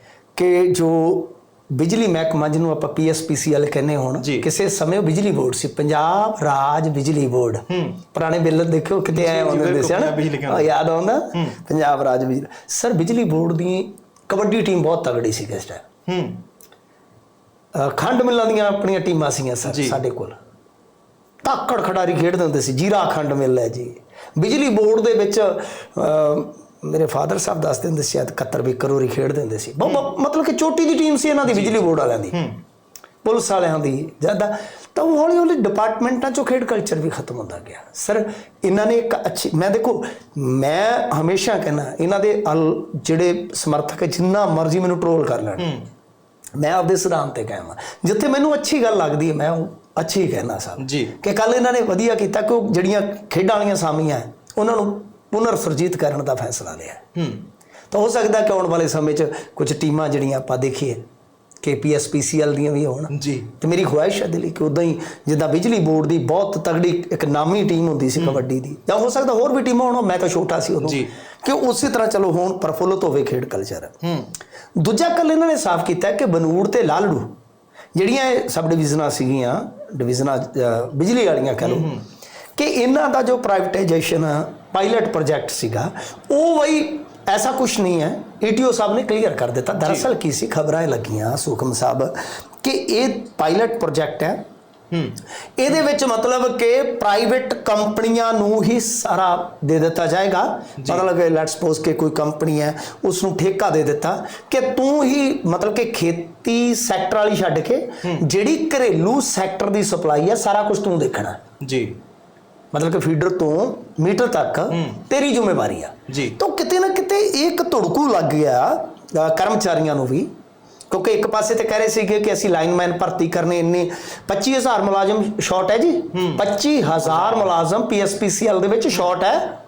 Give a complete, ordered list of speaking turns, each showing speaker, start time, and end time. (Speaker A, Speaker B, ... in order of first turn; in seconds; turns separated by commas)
Speaker A: 0.3-15.8, Speaker B: 4.2-4.5, Speaker B: 7.7-8.0, Speaker B: 9.1-10.7, Speaker B: 11.3-11.6, Speaker B: 16.1-16.4, Speaker A: 17.7-20.4, Speaker B: 19.6-20.0, Speaker A: 21.4-32.4, Speaker B: 29.8-30.1, Speaker B: 31.4-32.6, Speaker A: 33.2-45.7, Speaker B: 45.6-45.9, Speaker A: 46.6-57.0, Speaker B: 50.8-51.1, Speaker B: 57.1-57.5, Speaker A: 57.9-61.0, Speaker A: 61.6-74.0, Speaker B: 63.1-63.5, Speaker B: 70.8-71.1, Speaker B: 74.0-74.3, Speaker A: 74.8-77.3, Speaker A: 77.9-81.9, Speaker B: 81.6-82.0, Speaker A: 82.5-94.4, Speaker B: 89.8-90.1, Speaker B: 94.9-95.2, Speaker A: 95.6-111.4, Speaker B: 100.8-101.0, Speaker B: 111.6-112.0, Speaker A: 112.7-120.3, Speaker B: 114.7-115.0, Speaker B: 116.1-116.4, Speaker A: 120.9-129.6, Speaker B: 126.1-127.5